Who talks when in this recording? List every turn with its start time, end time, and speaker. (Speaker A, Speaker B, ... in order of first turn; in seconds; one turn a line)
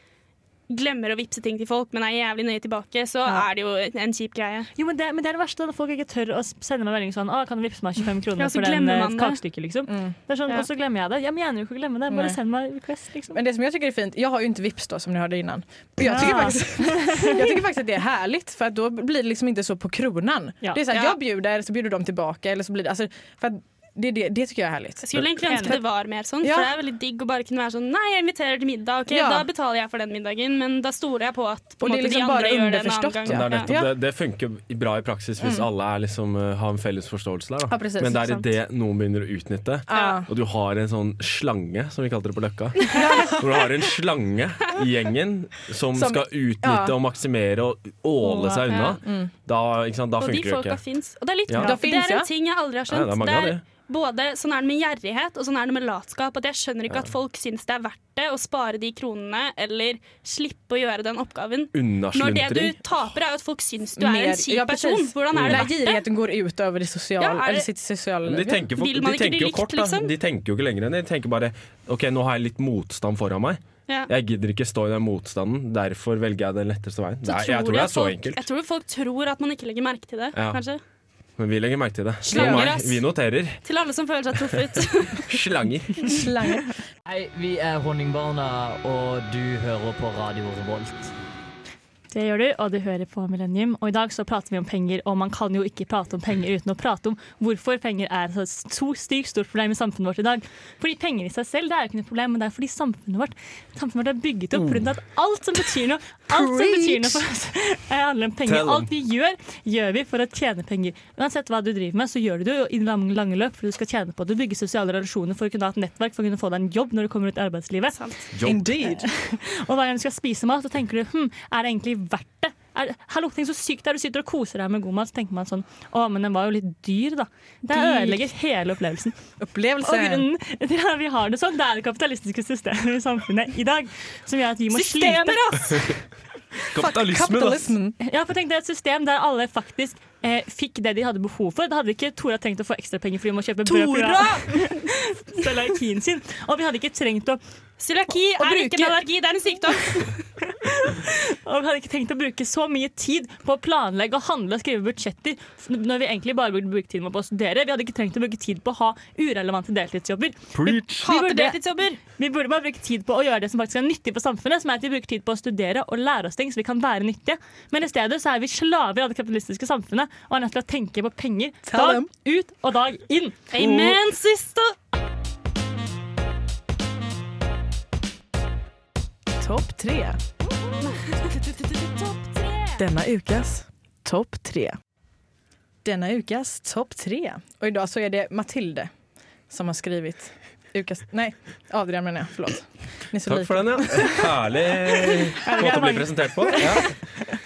Speaker A: 0.7-4.7
Speaker B: 4.8-13.4
Speaker A: 8.4-9.4
Speaker C: 12.1-12.4
Speaker C: 13.3-25.8
Speaker B: 16.1-17.5
Speaker A: 20.9-21.2
Speaker A: 25.0-33.7
Speaker B: 25.5-25.8
Speaker C: 26.4-26.7
Speaker C: 29.1-29.5
Speaker C: 31.8-33.9
Speaker D: 33.3-50.8
Speaker C: 35.4-35.6
Speaker C: 37.7-38.2
Speaker B: 38.0-38.5
Speaker C: 39.9-40.3
Speaker A: 39.9-40.2
Speaker C: 42.8-43.6
Speaker C: 45.9-46.9
Speaker B: 48.2-48.9
Speaker A: 48.7-49.0
Speaker C: 49.0-49.3
Speaker A: 50.2-66.0
Speaker D: 51.5-51.8
Speaker C: 51.6-52.3
Speaker D: 52.9-53.6
Speaker D: 61.7-62.8
Speaker C: 64.0-68.7
Speaker D: 65.3-65.7
Speaker A: 67.2-67.7
Speaker D: 68.2-78.4
Speaker A: 68.8-70.1
Speaker A: 77.2-80.8
Speaker D: 80.3-80.6
Speaker D: 81.4-83.6
Speaker A: 82.2-83.0
Speaker C: 82.3-82.7
Speaker A: 83.6-85.4
Speaker D: 84.5-86.2
Speaker C: 86.0-86.8
Speaker E: 87.0-91.1
Speaker B: 92.1-118.0
Speaker D: 104.5-104.9
Speaker C: 106.3-107.2
Speaker D: 108.5-108.9
Speaker A: 118.0-118.2
Speaker D: 118.3-118.7
Speaker C: 118.4-119.1
Speaker B: 119.0-129.2
Speaker C: 127.7-128.2
Speaker C: 129.4-130.3
Speaker B: 129.8-135.4
Speaker A: 134.7-135.9
Speaker D: 136.7-137.8
Speaker C: 136.7-138.0
Speaker B: 138.0-147.4
Speaker A: 143.7-144.8
Speaker A: 147.8-150.2
Speaker C: 148.4-149.0
Speaker B: 150.5-173.4
Speaker D: 160.5-161.1
Speaker A: 161.0-162.0
Speaker C: 171.6-172.1
Speaker A: 173.5-174.7
Speaker C: 173.6-174.0
Speaker C: 179.4-180.2
Speaker A: 180.8-182.8
Speaker C: 182.8-184.8
Speaker C: 185.8-188.9
Speaker C: 189.5-194.3
Speaker D: 193.2-197.0
Speaker B: 195.4-196.9